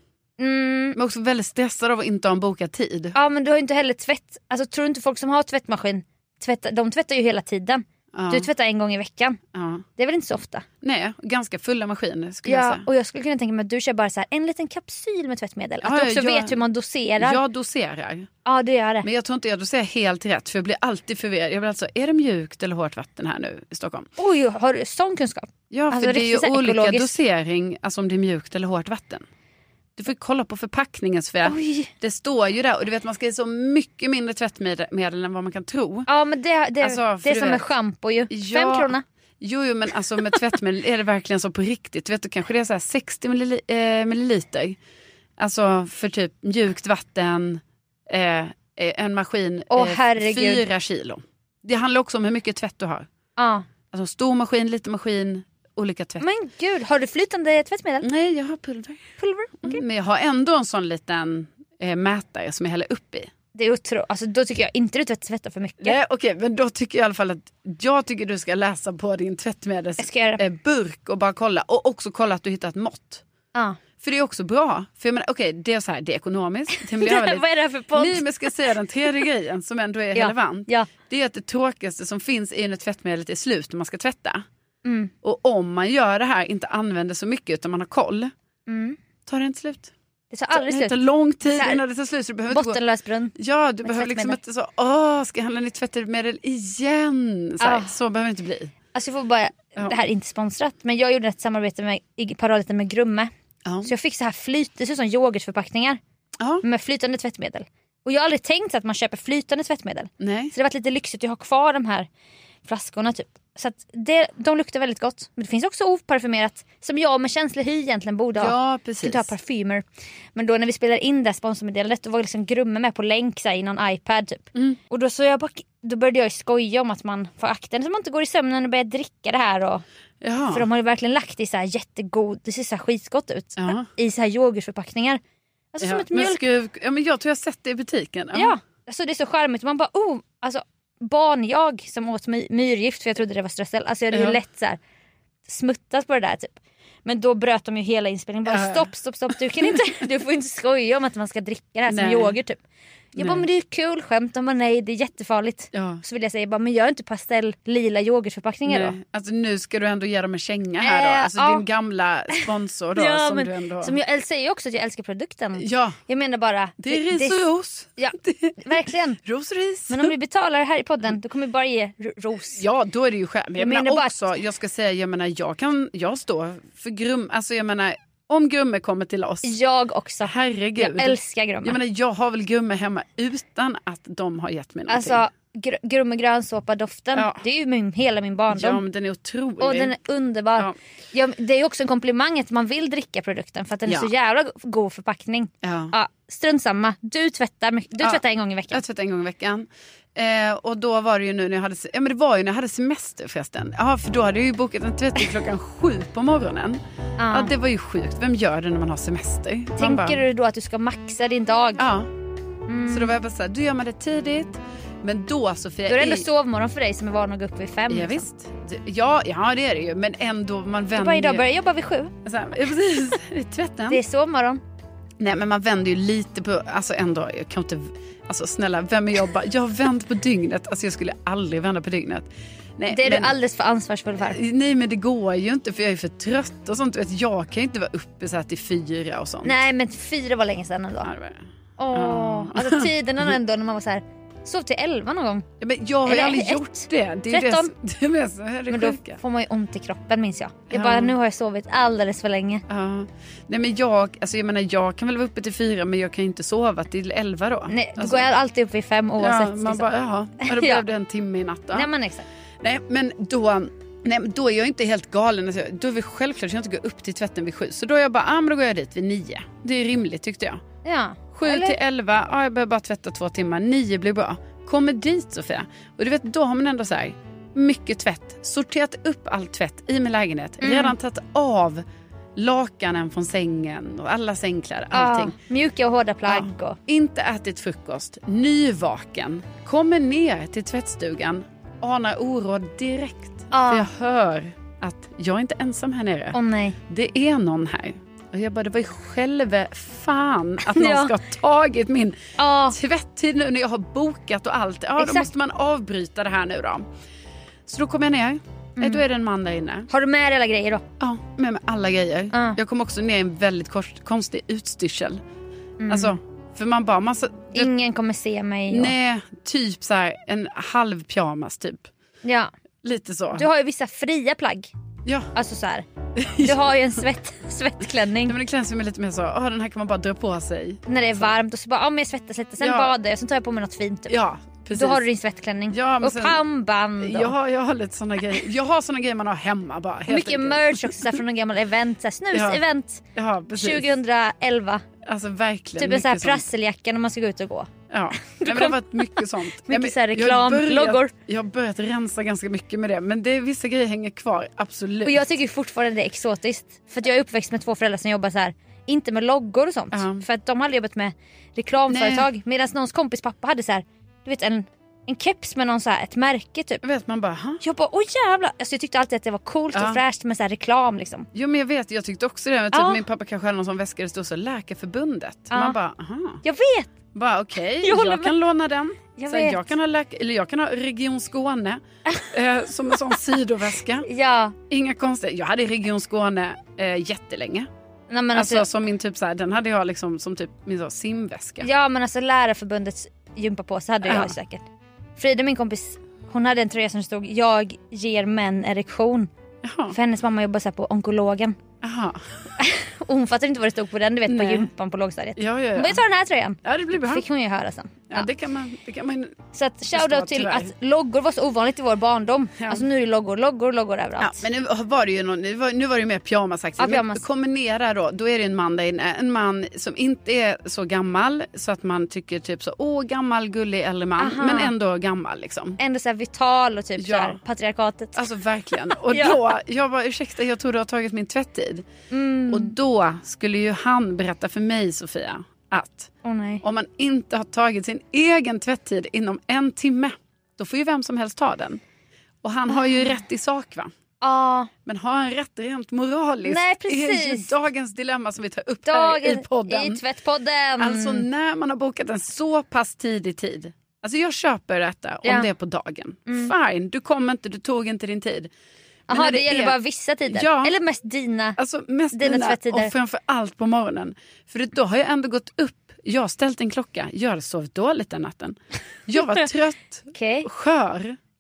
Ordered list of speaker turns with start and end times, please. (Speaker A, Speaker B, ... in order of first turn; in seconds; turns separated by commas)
Speaker A: 0.4-1.0, Speaker B: 0.9-3.2, Speaker A: 3.1-9.4, Speaker B: 8.1-8.5, Speaker B: 9.5-9.9, Speaker A: 10.0-10.7, Speaker B: 10.8-12.9, Speaker A: 12.5-17.4, Speaker B: 15.8-16.6, Speaker B: 17.2-18.3, Speaker A: 18.5-19.1, Speaker B: 19.0-24.1, Speaker A: 24.2-27.1, Speaker B: 25.7-29.2, Speaker B: 30.0-36.1, Speaker A: 31.4-31.9, Speaker A: 36.1-39.0, Speaker B: 36.8-37.6, Speaker B: 38.3-44.8, Speaker B: 45.4-53.1, Speaker A: 49.7-50.6, Speaker A: 53.4-53.7, Speaker B: 53.9-56.2, Speaker A: 56.2-58.1, Speaker B: 58.0-59.1, Speaker A: 59.2-59.8, Speaker B: 59.6-63.3, Speaker A: 63.5-66.0, Speaker B: 65.8-73.2, Speaker A: 70.0-70.4, Speaker A: 73.5-73.8, Speaker B: 74.0-77.4, Speaker A: 76.7-78.5, Speaker B: 78.0-84.5, Speaker A: 80.1-80.9, Speaker A: 84.8-85.1, Speaker B: 85.2-88.3, Speaker A: 88.7-89.0, Speaker B: 89.3-89.9, Speaker A: 90.3-91.8, Speaker B: 90.5-92.8, Speaker A: 92.5-94.4, Speaker B: 93.4-98.7, Speaker A: 97.6-98.0, Speaker A: 99.0-103.3, Speaker B: 103.7-103.9, Speaker A: 103.8-106.0, Speaker A: 106.6-112.1, Speaker B: 110.2-110.5, Speaker A: 112.7-119.8, Speaker B: 118.4-119.3, Speaker A: 120.3-129.8, Speaker B: 130.2-130.7, Speaker A: 130.5-135.2, Speaker B: 133.6-133.9, Speaker A: 135.7-136.4, Speaker B: 135.8-138.6, Speaker A: 138.3-144.8, Speaker B: 144.1-144.4, Speaker A: 145.5-146.5, Speaker A: 147.1-152.6, Speaker B: 148.4-148.9, Speaker B: 149.5-149.9, Speaker B: 151.9-152.4, Speaker B: 153.2-153.5, Speaker A: 153.2-159.0, Speaker B: 155.7-156.0, Speaker B: 158.7-164.0, Speaker A: 160.8-161.7, Speaker A: 162.9-167.4, Speaker B: 165.6-166.0, Speaker B: 166.8-170.1, Speaker A: 168.0-169.2, Speaker A: 169.9-172.6, Speaker B: 172.5-179.5, Speaker A: 173.6-174.2, Speaker A: 179.4-181.8, Speaker B: 180.2-185.3, Speaker A: 184.9-188.8, Speaker B: 187.2-187.4, Speaker B: 188.5-189.9, Speaker A: 189.6-198.8, Speaker B: 193.9-194.1, Speaker B: 195.6-195.9, Speaker B: 198.0-210.2, Speaker A: 207.2-207.5, Speaker A: 209.8-211.8, Speaker B: 211.8-212.1, Speaker A: 212.7-213.1, Speaker B: 212.9-216.3, Speaker A: 215.9-218.2, Speaker B: 217.9-221.4, Speaker A: 220.9-222.1, Speaker B: 222.2-224.0, Speaker A: 223.9-224.6, Speaker B: 225.2-233.3, Speaker A: 232.9-234.4, Speaker B: 234.2-239.6, Speaker A: 239.4-241.1, Speaker B: 241.0-241.4, Speaker A: 241.8-245.5, Speaker B: 241.9-243.3, Speaker B: 245.6-249.2, Speaker A: 246.1-247.7, Speaker A: 248.7-252.6, Speaker B: 250.7-251.1, Speaker B: 252.7-258.3, Speaker A: 257.7-259.9, Speaker B: 259.2-261.9, Speaker A: 260.4-260.8, Speaker A: 261.7-262.3, Speaker B: 262.6-270.6, Speaker A: 270.9-271.8, Speaker B: 271.4-281.8, Speaker A: 280.6-280.9, Speaker B: 282.4-285.4, Speaker A: 284.9-286.8, Speaker B: 286.3-296.4, Speaker A: 293.5-293.9, Speaker A: 296.3-296.8, Speaker B: 296.9-306.9, Speaker A: 300.7-301.1, Speaker A: 302.4-302.8, Speaker A: 305.0-305.3, Speaker B: 307.7-309.9, Speaker A: 308.8-309.0, Speaker A: 309.9-310.8, Speaker B: 311.0-315.2, Speaker A: 315.8-316.2, Speaker B: 315.9-317.7, Speaker A: 317.5-318.9, Speaker B: 318.7-321.9, Speaker A: 322.2-322.5, Speaker B: 322.8-323.5, Speaker A: 323.3-324.7, Speaker B: 325.1-325.3, Speaker A: 325.4-325.9, Speaker B: 326.2-327.0, Speaker A: 326.4-328.4, Speaker B: 328.3-330.8, Speaker A: 330.9-334.2, Speaker B: 332.6-332.9, Speaker B: 334.1-335.0, Speaker A: 334.7-337.3, Speaker B: 335.7-336.4, Speaker B: 337.0-341.2, Speaker A: 340.1-343.0, Speaker B: 342.3-342.6, Speaker B: 343.1-343.9, Speaker A: 343.6-344.8, Speaker B: 345.0-346.4, Speaker A: 345.8-347.7, Speaker B: 347.9-355.3, Speaker A: 348.2-351.1, Speaker A: 355.1-366.8, Speaker B: 359.9-360.2, Speaker B: 361.9-362.3, Speaker B: 366.8-367.6, Speaker A: 367.6-371.3, Speaker B: 369.7-370.0, Speaker B: 371.3-376.4, Speaker A: 372.7-373.0, Speaker A: 375.5-375.8, Speaker A: 376.4-376.9, Speaker B: 377.1-384.1, Speaker A: 377.8-378.3, Speaker A: 379.2-379.6, Speaker A: 384.1-384.6, Speaker B: 384.7-387.7, Speaker A: 388.1-388.7, Speaker B: 388.3-391.7, Speaker A: 391.6-394.6, Speaker B: 394.0-394.4, Speaker A: 395.2-399.3, Speaker B: 399.6-400.0, Speaker A: 399.9-401.6, Speaker B: 401.8-402.2, Speaker A: 402.6-408.3, Speaker B: 404.3-404.7, Speaker B: 405.4-406.0, Speaker B: 406.6-407.2, Speaker B: 408.1-409.4, Speaker A: 409.5-414.4, Speaker B: 409.9-410.7, Speaker B: 412.6-412.9, Speaker B: 414.2-425.8, Speaker A: 416.8-417.2, Speaker A: 424.2-424.7, Speaker A: 425.8-428.2, Speaker B: 427.0-427.4, Speaker B: 428.1-431.9, Speaker A: 428.9-429.4, Speaker A: 432.1-432.7, Speaker B: 432.5-436.1, Speaker A: 436.2-436.6, Speaker B: 436.6-441.8, Speaker B: 442.4-443.9, Speaker A: 442.7-443.2, Speaker A: 444.2-444.7, Speaker B: 444.9-450.0, Speaker A: 446.4-447.5, Speaker A: 448.9-451.3, Speaker B: 450.8-458.5, Speaker A: 456.3-456.5, Speaker B: 459.1-459.8, Speaker A: 459.1-461.6, Speaker B: 460.3-460.7, Speaker B: 461.6-471.2, Speaker A: 462.1-462.9, Speaker A: 470.1-470.5